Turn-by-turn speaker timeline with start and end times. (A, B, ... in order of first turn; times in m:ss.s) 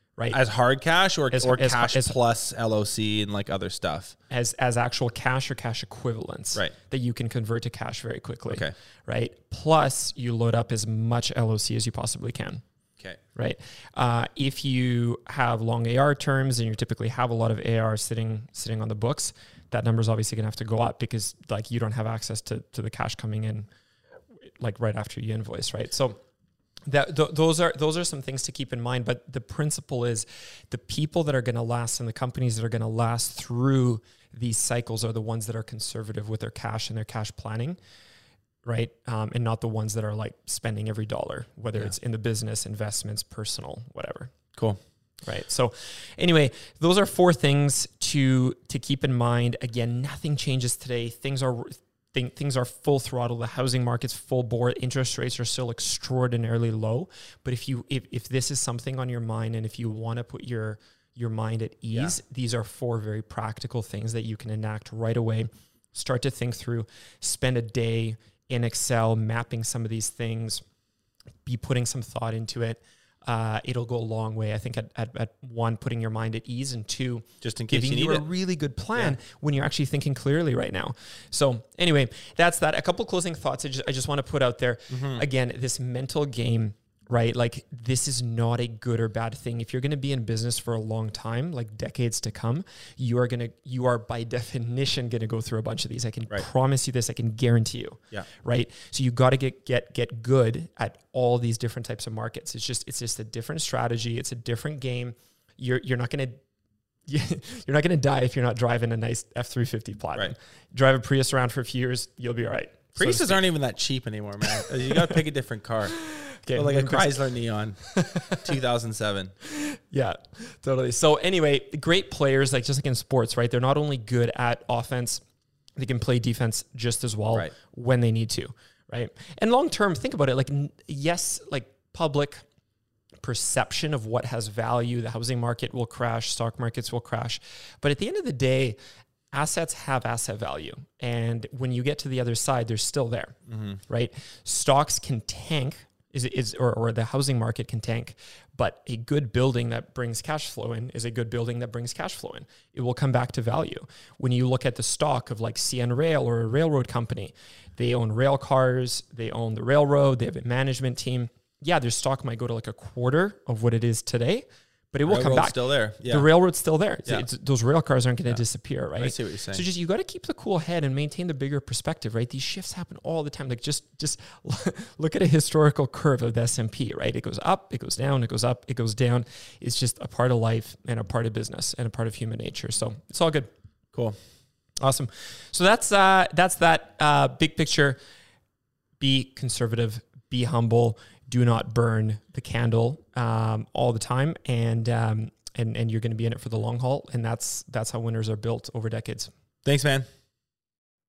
0:00.3-0:04.1 A
0:01.3-0:02.2 B
0:04.3-0:12.6 B
0:13.3-0:23.7 B
0:24.5-0:26.2 B
0:26.9-0:37.8 B
0:38.6-0:44.3 B
0:45.2-1:10.6 B
1:11.4-1:46.4 B
1:17.4-1:18.2 A
1:24.9-1:25.2 A
1:47.1-1:53.4 B
1:53.0-1:56.0 A
1:54.5-1:55.1 B
1:56.0-1:57.2 B
1:56.5-1:59.3 A
1:57.8-1:58.5 B
1:59.4-2:05.2 B
2:05.8-2:12.4 B
2:13.2-2:18.8 B
2:19.3-2:23.4 B
2:23.5-2:23.8 A
2:23.9-3:03.5 B
2:45.0-2:46.3 A
2:49.0-2:49.6 A
3:03.9-3:04.2 A
3:04.8-3:08.0 B
3:09.0-3:19.3 B
3:19.6-3:20.1 A